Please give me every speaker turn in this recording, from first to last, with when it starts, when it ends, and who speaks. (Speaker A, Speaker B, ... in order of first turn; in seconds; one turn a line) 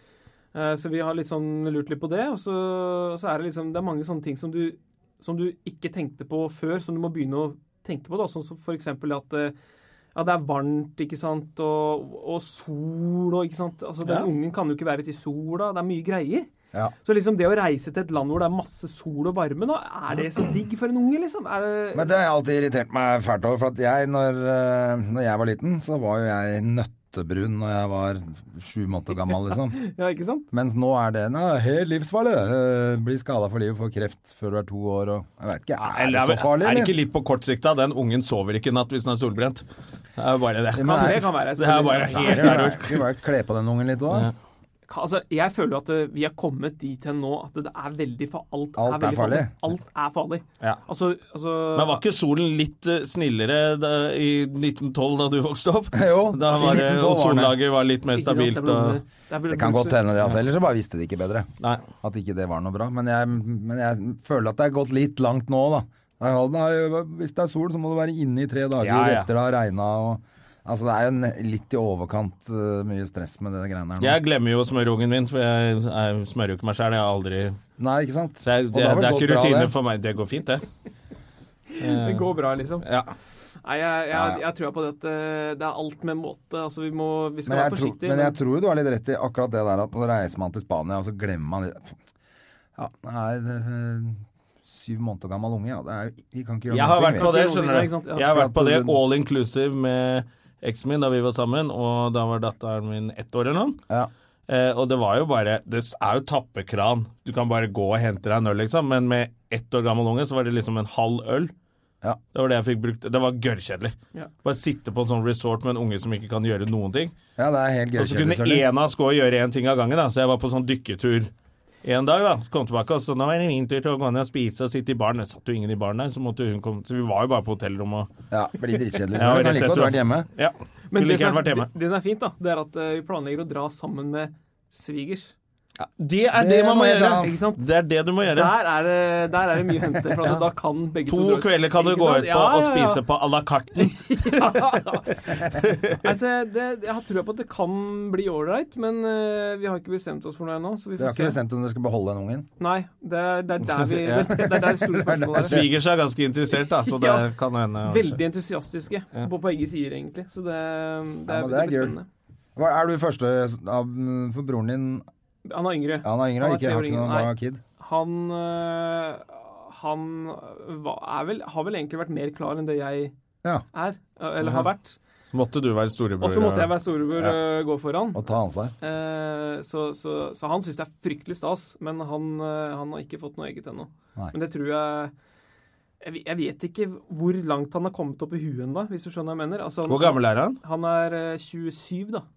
Speaker A: 0.5-9.5
Speaker A: 10.1-16.5
Speaker A: 17.0-22.1
Speaker B: 21.9-29.8
Speaker A: 29.5-30.4
Speaker B: 30.5-36.9
Speaker C: 35.8-39.6
Speaker C: 40.2-43.0
Speaker B: 40.7-41.3
Speaker A: 40.8-42.7
Speaker B: 42.1-44.3
Speaker A: 44.9-52.0
Speaker B: 48.8-49.5
Speaker C: 51.7-59.0
Speaker B: 55.9-57.5
Speaker A: 56.5-56.8
Speaker A: 58.1-60.0
Speaker B: 59.5-61.5
Speaker B: 62.0-74.2
Speaker C: 68.8-69.3
Speaker C: 74.0-77.6
Speaker B: 77.8-79.7
Speaker C: 78.4-80.7
Speaker A: 81.7-82.8
Speaker C: 81.8-82.3
Speaker C: 82.8-83.1
Speaker A: 83.6-88.4
Speaker B: 84.1-84.4
Speaker B: 87.5-92.0
Speaker B: 92.8-97.3
Speaker C: 96.7-103.8
Speaker A: 97.1-98.3
Speaker B: 98.2-99.0
Speaker C: 104.5-111.5
Speaker C: 112.3-117.1
Speaker B: 117.4-118.7
Speaker C: 118.0-121.3
Speaker C: 121.8-128.1
Speaker B: 128.3-130.3
Speaker C: 129.1-131.7
Speaker A: 130.9-135.3
Speaker C: 136.0-138.5
Speaker B: 136.3-137.3
Speaker A: 137.2-137.6
Speaker A: 138.3-143.0
Speaker C: 141.1-144.6
Speaker A: 143.8-151.4
Speaker C: 145.5-146.0
Speaker B: 151.0-152.5
Speaker A: 152.6-155.6
Speaker C: 153.8-154.5
Speaker B: 154.7-155.7
Speaker C: 155.4-158.2
Speaker A: 156.6-157.3
Speaker A: 157.8-162.1
Speaker B: 161.3-161.9
Speaker B: 162.6-165.1
Speaker A: 165.4-173.1
Speaker B: 166.0-167.6
Speaker A: 173.7-175.0
Speaker C: 174.4-174.7
Speaker C: 175.3-176.7
Speaker A: 176.2-178.2
Speaker B: 178.1-178.7
Speaker A: 178.8-185.1
Speaker A: 186.0-192.2
Speaker C: 189.9-190.6